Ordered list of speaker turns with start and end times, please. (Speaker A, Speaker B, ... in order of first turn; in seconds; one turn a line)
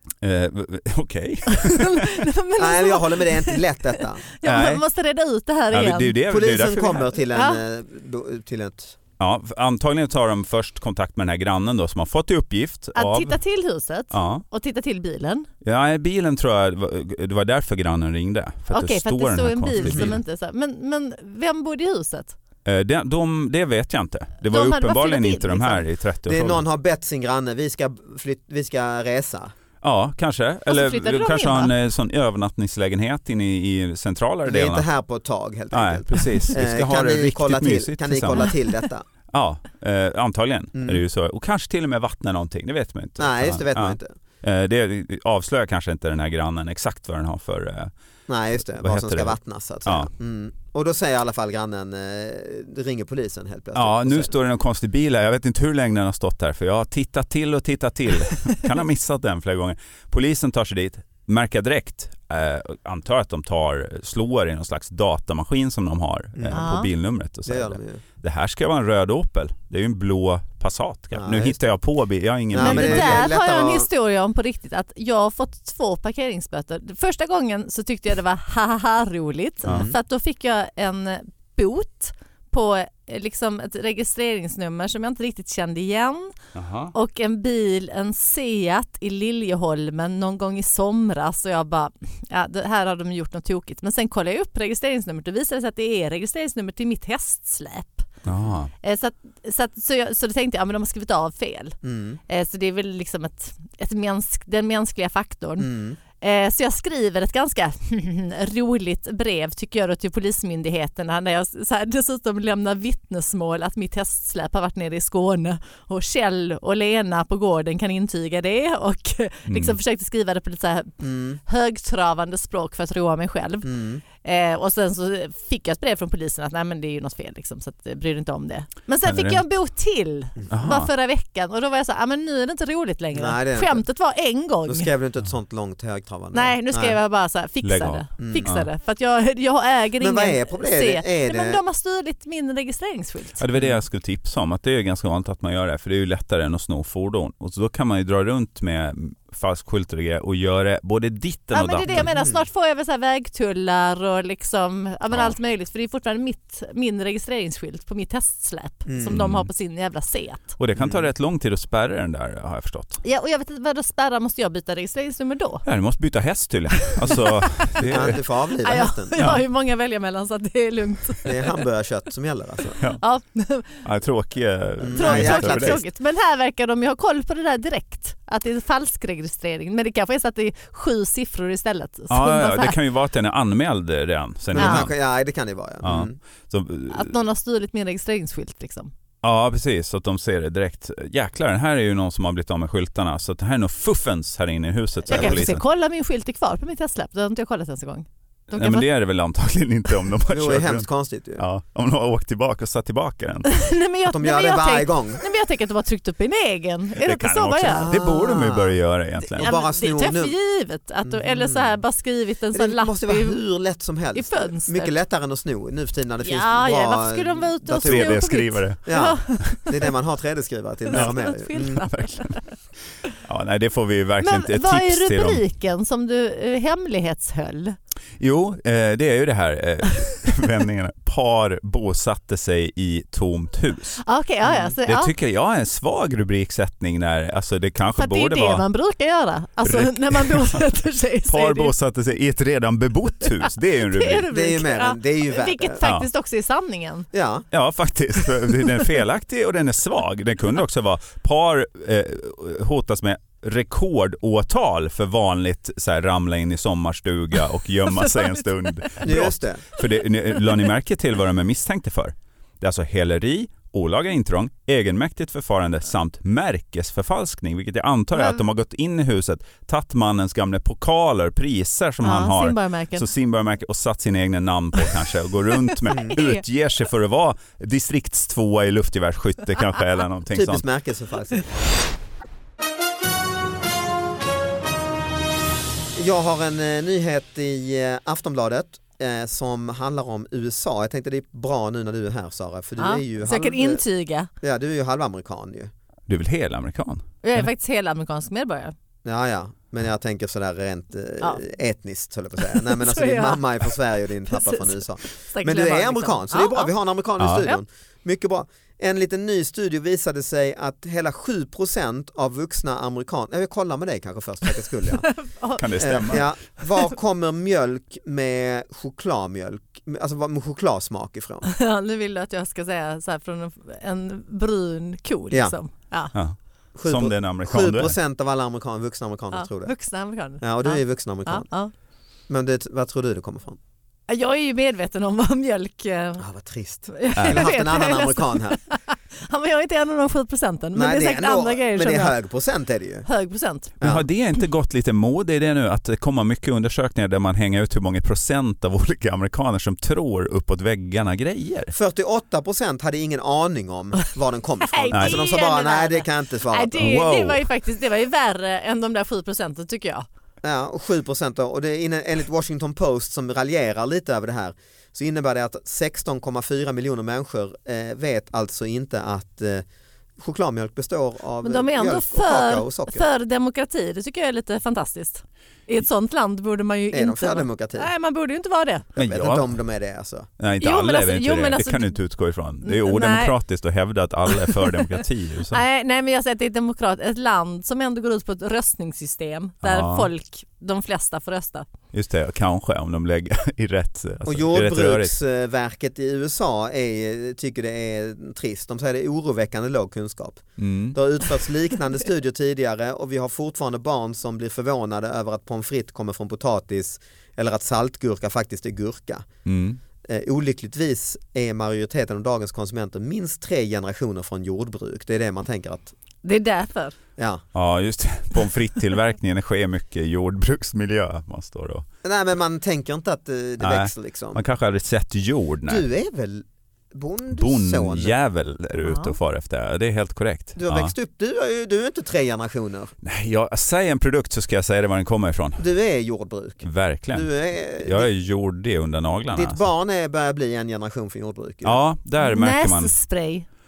Speaker A: 0.2-2.2
Speaker B: 1.5-6.2
Speaker C: 2.6-4.2
Speaker A: 4.4-4.8
Speaker A: 5.7-7.1
Speaker C: 6.3-9.0
Speaker B: 7.3-7.6
Speaker A: 9.2-13.4
Speaker B: 12.9-15.5
Speaker A: 14.1-14.4
Speaker A: 15.6-20.2
Speaker B: 18.7-22.4
Speaker C: 19.8-20.1
Speaker A: 22.6-26.6
Speaker B: 24.5-25.9
Speaker C: 26.2-29.5
Speaker A: 29.8-34.9
Speaker B: 30.7-31.7
Speaker C: 34.4-39.1
Speaker A: 35.7-38.6
Speaker A: 39.3-47.9
Speaker C: 40.8-41.0
Speaker C: 43.2-44.1
Speaker C: 48.3-54.3
Speaker A: 48.6-50.1
Speaker A: 53.7-73.3
Speaker C: 66.3-66.7
Speaker B: 66.5-66.9
Speaker C: 67.5-68.0
Speaker C: 71.1-71.6
Speaker C: 72.5-73.9
Speaker B: 72.6-86.3
Speaker C: 79.6-80.0
Speaker A: 86.5-86.9
Speaker B: 86.9-98.1
Speaker A: 98.2-98.7
Speaker B: 98.8-101.8
Speaker C: 101.8-102.2
Speaker B: 102.3-134.9
Speaker C: 105.6-106.0
Speaker A: 119.5-119.8
Speaker C: 121.0-121.4
Speaker C: 123.6-124.0
Speaker A: 129.0-129.4
Speaker A: 130.5-130.9
Speaker C: 133.1-133.8
Speaker C: 134.7-137.0
Speaker B: 136.3-143.4
Speaker A: 137.6-138.7
Speaker C: 138.2-138.5
Speaker C: 140.0-141.6
Speaker A: 143.4-152.1
Speaker C: 143.5-143.8
Speaker B: 151.5-160.6
Speaker C: 151.9-152.4
Speaker C: 158.9-159.2
Speaker A: 159.1-159.5
Speaker A: 160.6-163.0
Speaker C: 160.8-161.1
Speaker B: 163.0-165.6
Speaker A: 165.6-168.2
Speaker B: 167.0-167.4
Speaker C: 167.8-169.2
Speaker B: 168.6-171.5
Speaker A: 169.2-169.4
Speaker C: 171.2-172.8
Speaker B: 173.0-173.8
Speaker A: 173.8-175.8
Speaker C: 174.8-175.8
Speaker B: 174.9-182.8
Speaker A: 182.1-184.9
Speaker C: 184.5-186.2
Speaker B: 184.6-184.9
Speaker A: 185.8-187.1
Speaker B: 186.9-188.9
Speaker A: 189.2-195.6
Speaker B: 195.1-198.9
Speaker C: 195.1-195.5
Speaker A: 198.5-203.5
Speaker C: 200.3-201.4
Speaker B: 203.5-207.9
Speaker C: 204.1-205.2
Speaker A: 207.0-209.5
Speaker C: 207.7-208.8
Speaker C: 209.3-210.3
Speaker B: 209.4-213.4
Speaker C: 211.0-211.8
Speaker C: 212.5-218.2
Speaker B: 214.1-214.9
Speaker B: 216.2-219.7
Speaker A: 217.8-218.8
Speaker C: 218.8-221.8
Speaker B: 220.9-222.4
Speaker A: 221.8-222.4
Speaker A: 223.2-225.4
Speaker B: 224.2-227.8
Speaker A: 228.2-234.0
Speaker B: 234.0-235.1
Speaker C: 234.4-234.8
Speaker A: 234.9-238.6
Speaker B: 238.0-241.7
Speaker A: 239.6-240.6
Speaker A: 241.3-244.3
Speaker B: 243.9-247.1
Speaker C: 244.3-245.8
Speaker C: 247.1-247.5
Speaker A: 247.5-280.6
Speaker B: 258.0-258.9
Speaker C: 259.0-259.6
Speaker B: 268.1-268.4
Speaker B: 272.0-273.1
Speaker B: 275.7-276.4
Speaker C: 275.9-276.1
Speaker C: 280.3-281.5
Speaker C: 285.9-293.8
Speaker B: 292.8-294.3
Speaker C: 294.4-295.7
Speaker A: 296.1-297.5
Speaker B: 297.2-298.7
Speaker C: 299.0-315.1
Speaker B: 302.4-303.4
Speaker B: 304.3-306.7
Speaker A: 307.2-307.5
Speaker B: 315.0-316.2
Speaker A: 315.6-316.3
Speaker C: 315.8-321.5
Speaker B: 321.5-326.1
Speaker C: 325.3-325.6
Speaker A: 326.1-327.9
Speaker C: 326.8-329.7
Speaker B: 329.3-331.7
Speaker C: 330.4-331.5
Speaker C: 332.3-333.6
Speaker B: 334.1-336.2
Speaker C: 336.2-338.6
Speaker B: 336.9-342.1
Speaker A: 337.1-337.5
Speaker C: 340.7-343.1
Speaker B: 343.1-343.8
Speaker C: 343.8-344.1
Speaker A: 343.8-351.7
Speaker C: 351.7-356.9
Speaker B: 354.7-360.1
Speaker A: 354.9-355.2
Speaker A: 356.8-357.5
Speaker C: 360.4-369.6
Speaker C: 370.2-373.1
Speaker B: 371.4-378.9
Speaker C: 376.9-377.9
Speaker C: 379.0-380.3
Speaker A: 379.0-379.5
Speaker A: 380.4-385.6
Speaker B: 380.6-382.0
Speaker B: 382.6-383.4
Speaker B: 384.3-384.9
Speaker B: 385.5-391.7
Speaker A: 389.6-390.1
Speaker A: 391.9-395.1
Speaker C: 394.2-409.2
Speaker A: 400.6-401.0
Speaker A: 409.5-409.8
Speaker C: 410.0-415.9
Speaker B: 416.2-417.0
Speaker C: 417.2-417.4
Speaker A: 417.5-421.9
Speaker C: 422.0-424.4
Speaker A: 423.6-425.9
Speaker C: 425.7-428.1
Speaker A: 427.3-430.9
Speaker B: 428.8-429.1
Speaker C: 430.6-432.9
Speaker A: 433.0-435.6
Speaker C: 435.6-438.1
Speaker A: 436.6-439.6
Speaker C: 439.3-441.8
Speaker A: 441.6-442.9
Speaker B: 442.2-443.5